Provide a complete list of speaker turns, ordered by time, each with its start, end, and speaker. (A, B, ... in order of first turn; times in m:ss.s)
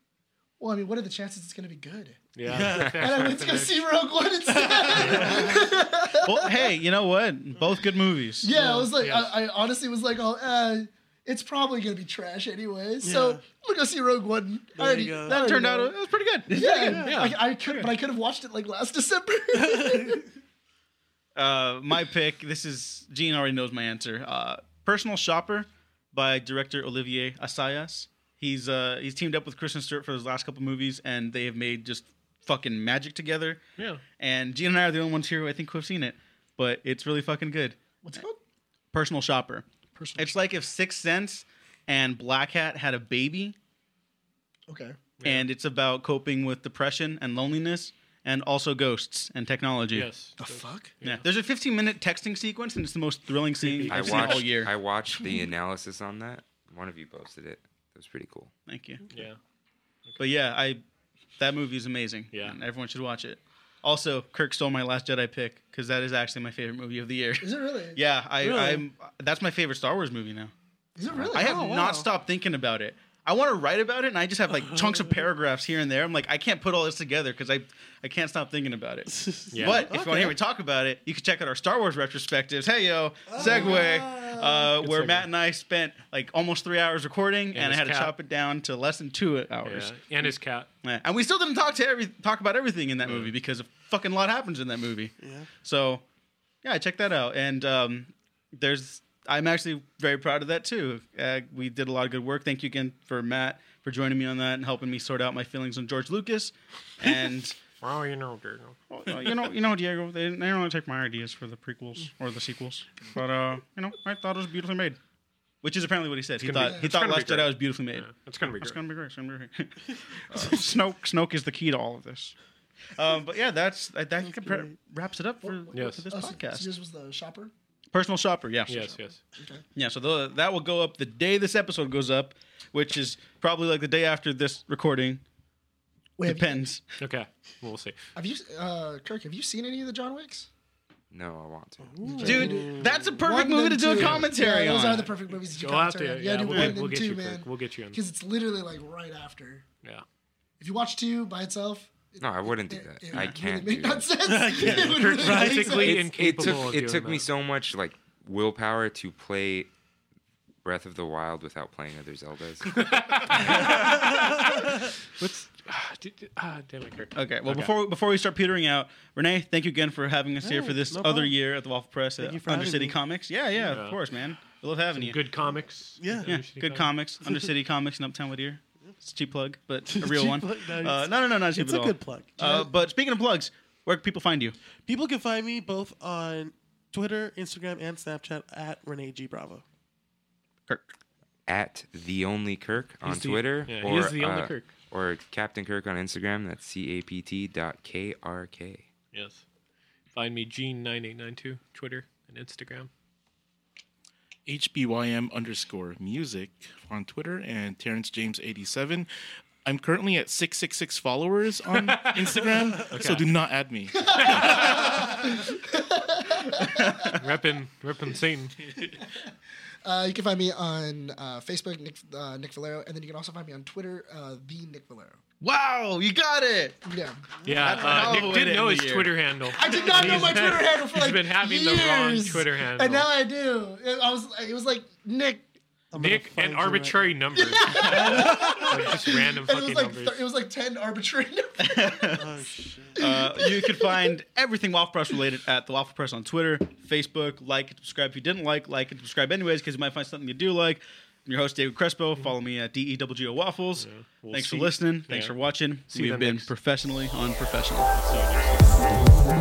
0:00.6-0:06.7 A
0:02.4-0:03.8 B
0:02.5-0:03.4 C
0:04.5-0:05.7 C
0:04.9-0:05.5 B
0:06.2-0:08.5 D
0:08.4-0:15.9 A
0:08.6-0:09.3 B
0:13.0-0:13.4 C
0:14.8-0:15.4 C
0:15.2-0:17.0 D
0:16.5-0:20.3 A
0:16.6-0:17.2 C
0:17.0-0:17.9 B
0:19.5-0:20.2 C
0:21.3-0:33.6 D
0:33.8-0:34.0 B
0:34.2-0:37.8 D
0:38.0-0:38.4 A
0:38.9-0:39.6 D
0:39.9-0:40.3 A
0:40.2-0:43.6 D
0:44.7-0:45.0 A
0:45.2-0:45.5 B
0:45.2-0:50.1 D
0:49.9-0:51.2 B
0:50.4-0:51.0 A
0:51.0-0:54.7 D
0:53.6-0:54.6 B
0:53.9-0:58.5 E
0:55.1-0:55.4 A
0:58.7-0:59.0 D
0:59.1-0:59.4 B
1:00.2-1:00.8 D
1:01.4-1:10.5 D
1:02.3-1:02.6 B
1:07.4-1:08.0 A
1:08.4-1:08.8 C
1:11.0-1:11.7 A
1:11.3-1:12.1 C
1:11.3-1:29.9 D
1:19.1-1:20.3 C
1:19.5-1:19.9 B
1:23.3-1:24.7 C
1:24.8-1:25.3 B
1:27.5-1:28.1 B
1:29.6-1:30.7 B
1:30.8-1:36.0 D
1:33.0-1:33.3 B
1:35.2-1:35.5 C
1:36.6-1:47.6 D
1:47.8-1:48.8 B
1:48.9-1:55.0 D
1:55.6-2:02.3 D
1:56.4-1:58.8 B
1:56.6-1:56.9 A
2:00.3-2:00.6 C
2:02.9-2:06.7 D
2:04.2-2:04.7 C
2:05.4-2:07.5 A
2:05.7-2:06.0 B
2:07.9-2:09.0 D
2:08.7-2:09.2 B
2:09.4-2:09.6 A
2:09.8-2:15.2 D
2:16.2-2:16.7 A
2:16.2-2:16.8 D
2:17.0-2:18.0 B
2:18.1-2:20.5 A
2:21.1-2:22.4 E
2:21.8-2:23.2 C
2:22.0-2:29.6 A
2:22.2-2:25.1 D
2:25.6-2:28.0 B
2:26.5-2:26.7 D
2:30.6-2:36.0 A
2:32.2-2:34.2 E
2:34.2-2:36.0 C
2:34.9-2:37.3 B
2:35.6-2:39.7 E
2:40.6-2:43.6 E
2:42.7-2:47.7 B
2:43.3-2:44.9 C
2:47.1-2:55.2 D
2:50.4-2:51.3 C
2:52.2-2:53.0 C
2:53.7-2:54.0 B
2:54.9-2:56.9 B
2:56.0-2:56.4 C
2:56.3-3:04.6 D
2:59.9-3:02.7 C
3:04.8-3:09.6 C
3:11.5-3:18.9 E
3:13.0-3:14.7 B
3:19.1-3:19.4 B
3:20.1-3:22.9 B
3:24.5-3:29.1 F
3:29.6-3:34.6 F
3:31.7-3:32.1 D
3:31.9-3:32.2 B
3:32.5-3:32.9 C
3:32.7-3:33.3 B
3:34.0-3:37.1 A
3:34.1-3:34.9 B
3:36.4-3:37.2 D
3:37.2-3:38.5 B
3:39.8-3:45.2 A
3:45.4-3:46.8 D
3:46.8-3:47.2 A
3:47.4-3:48.2 C
3:47.4-3:53.1 B
3:47.5-3:49.1 D
3:49.5-3:55.5 A
3:49.6-3:50.1 D
3:55.9-3:57.2 C
3:56.0-4:00.2 B
3:57.4-4:02.2 A
3:57.9-3:58.3 D
3:57.9-3:58.7 C
4:01.6-4:02.2 D
4:02.2-4:03.1 C
4:03.0-4:04.1 A
4:03.0-4:18.3 D
4:13.8-4:15.3 B
4:15.9-4:16.5 B
4:17.9-4:19.0 B